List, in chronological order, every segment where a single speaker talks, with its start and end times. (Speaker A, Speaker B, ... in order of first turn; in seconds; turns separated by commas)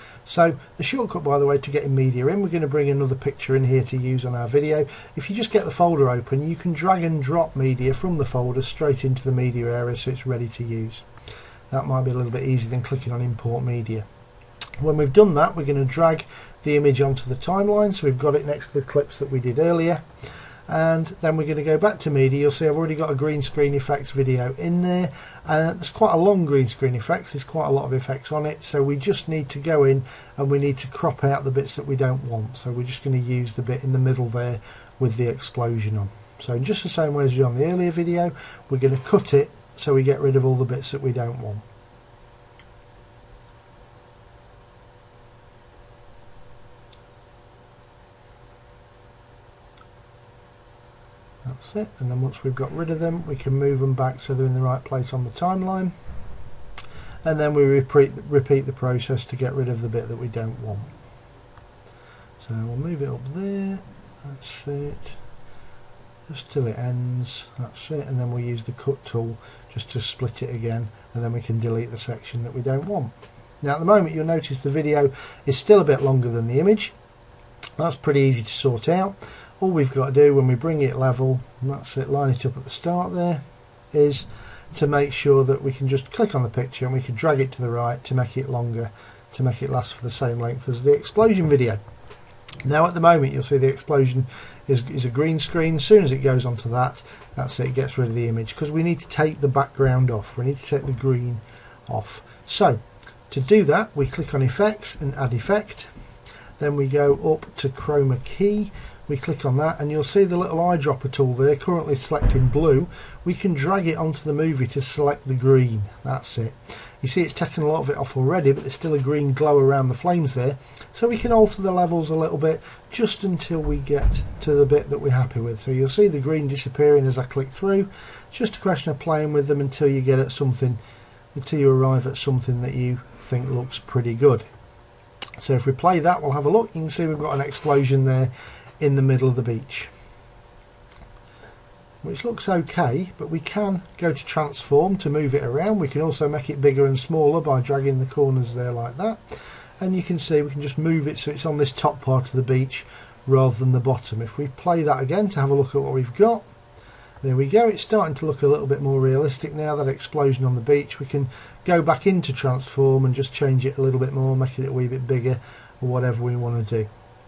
Speaker A: 0.2-11.1, Speaker A: 11.7-14.1, Speaker A: 14.8-41.6, Speaker A: 51.4-55.9, Speaker A: 57.2-60.9, Speaker A: 62.4-65.2, Speaker A: 66.3-76.9, Speaker A: 77.8-91.8, Speaker A: 92.6-105.9, Speaker A: 106.6-130.8, Speaker A: 131.3-134.5, Speaker A: 135.4-139.9, Speaker A: 142.0-156.4, Speaker A: 157.2-166.9